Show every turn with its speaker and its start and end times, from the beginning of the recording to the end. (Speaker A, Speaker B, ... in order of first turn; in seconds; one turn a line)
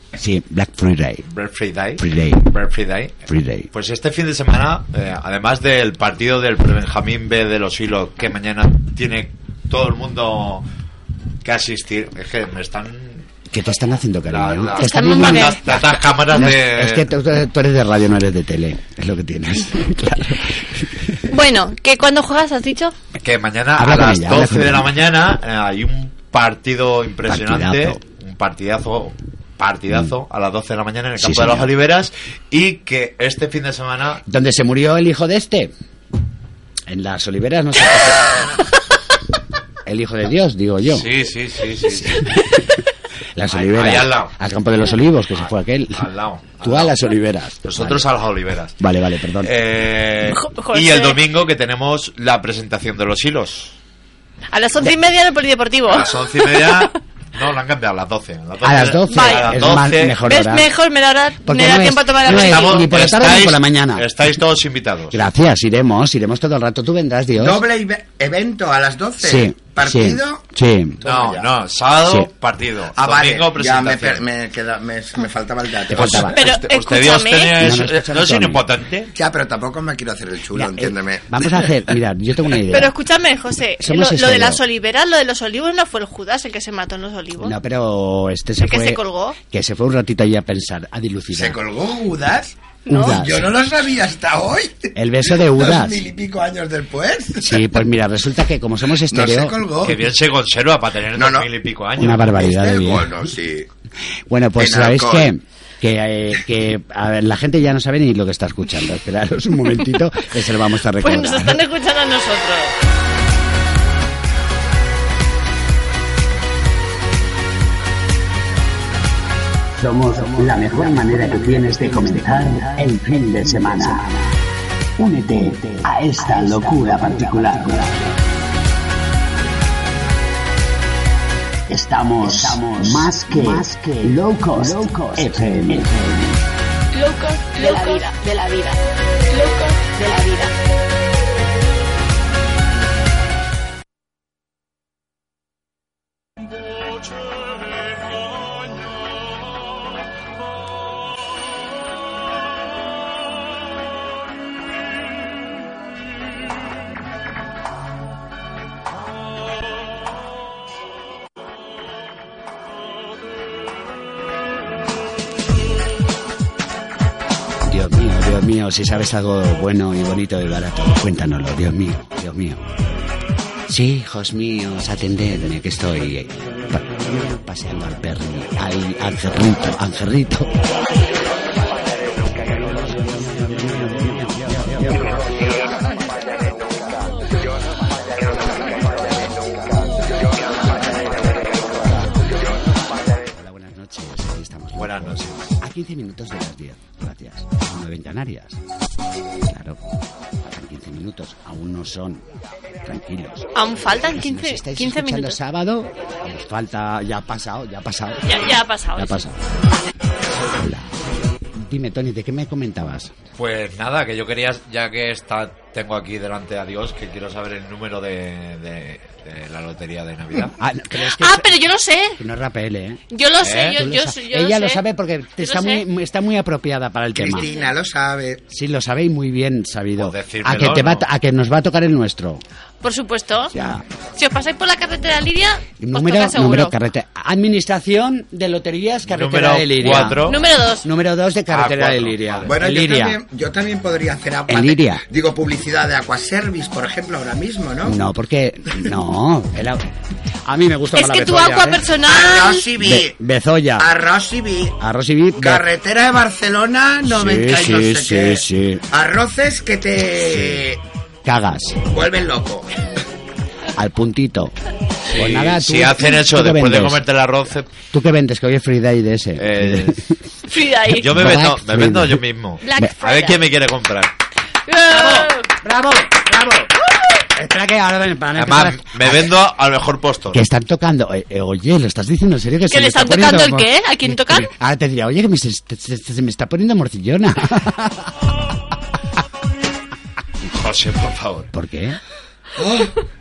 Speaker A: 0.1-1.2
Speaker B: 1.3-10.6
Speaker A: 2.0-2.5
Speaker A: 3.3-3.7
Speaker B: 11.4-13.2
Speaker A: 13.5-21.2
Speaker B: 14.3-17.1
Speaker C: 14.8-15.6
Speaker C: 21.3-22.9
Speaker B: 23.2-34.2
Speaker A: 23.8-24.9
Speaker A: 27.3-28.0
Speaker A: 31.2-31.7
Speaker A: 34.3-35.7
Speaker A: 36.9-38.5
Speaker A: 39.8-41.1
Speaker B: 40.9-42.4
Speaker A: 41.9-42.6
Speaker A: 43.4-46.0
Speaker B: 43.5-44.3
Speaker B: 45.9-47.0
Speaker A: 46.6-48.0
Speaker B: 47.6-48.8
Speaker A: 48.8-49.5
Speaker B: 49.4-53.7
Speaker C: 50.3-51.2
Speaker C: 54.5-56.7
Speaker B: 55.9-60.2
Speaker A: 58.6-60.7
Speaker C: 59.1-59.6
Speaker C: 60.2-62.9
Speaker A: 61.4-64.1
Speaker B: 62.2-65.3
Speaker A: 65.1-67.6
Speaker D: 67.4-70.4
Speaker A: 69.2-71.0
Speaker D: 71.0-71.5
Speaker B: 71.0-74.2
Speaker D: 72.9-76.3
Speaker A: 75.9-76.3
Speaker B: 75.9-79.1
Speaker C: 76.3-77.6
Speaker A: 77.6-78.6
Speaker D: 79.1-81.3
Speaker A: 80.5-82.9
Speaker C: 82.7-87.5
Speaker A: 83.8-84.6
Speaker A: 87.4-91.6
Speaker C: 88.6-89.4
Speaker D: 91.3-97.6
Speaker C: 92.9-93.2
Speaker A: 92.9-93.5
Speaker A: 94.9-96.0
Speaker A: 97.4-99.6
Speaker D: 99.1-100.0
Speaker B: 99.8-102.3
Speaker D: 101.1-101.5
Speaker A: 102.0-103.2
Speaker D: 102.3-103.7
Speaker A: 104.3-111.6
Speaker D: 104.6-105.3
Speaker C: 111.0-112.7
Speaker A: 119.8-124.3
Speaker A: 125.0-128.0
Speaker A: 131.7-136.2
Speaker C: 137.0-138.5
Speaker C: 139.4-139.9
Speaker A: 167.6-172.7
Speaker A: 173.7-180.5
Speaker A: 182.9-185.2
Speaker A: 193.3-198.6
Speaker B: 194.8-195.5
Speaker A: 199.4-199.8
Speaker A: 200.4-202.2
Speaker A: 202.8-209.4
Speaker C: 203.5-205.4
Speaker C: 208.2-209.2
Speaker A: 210.4-210.9
Speaker A: 211.5-213.1
Speaker B: 213.4-220.6
Speaker A: 220.6-221.5
Speaker C: 221.1-222.2
Speaker A: 222.2-223.0
Speaker C: 223.1-224.8
Speaker B: 223.4-223.8
Speaker A: 223.7-227.5
Speaker C: 225.4-225.8
Speaker D: 227.1-228.4
Speaker C: 227.3-227.7
Speaker A: 228.5-232.4
Speaker B: 230.0-231.0
Speaker C: 232.8-233.5
Speaker A: 233.5-233.8
Speaker C: 234.2-236.7
Speaker A: 235.8-240.3
Speaker B: 239.1-240.4
Speaker C: 240.2-240.8
Speaker A: 240.8-243.2
Speaker B: 241.5-242.5
Speaker D: 242.4-248.0
Speaker A: 244.5-245.0
Speaker A: 247.8-249.9
Speaker A: 250.4-251.8
Speaker C: 250.9-252.7
Speaker D: 252.0-253.1
Speaker A: 252.8-253.9
Speaker D: 253.8-254.8
Speaker A: 254.8-255.6
Speaker D: 255.4-260.8
Speaker A: 257.0-258.8
Speaker A: 260.2-260.6
Speaker A: 261.2-261.8
Speaker D: 261.9-262.8
Speaker A: 263.8-264.5
Speaker B: 265.1-267.7
Speaker A: 265.1-267.0
Speaker A: 267.9-270.2
Speaker B: 269.4-270.0
Speaker C: 270.5-271.1
Speaker B: 271.0-274.1
Speaker A: 271.0-272.2
Speaker C: 272.6-273.4
Speaker C: 274.7-275.5
Speaker A: 274.9-279.3
Speaker B: 278.4-280.4
Speaker A: 280.3-288.2
Speaker C: 282.7-284.5
Speaker B: 290.5-291.5
Speaker A: 291.5-292.0
Speaker D: 292.6-293.0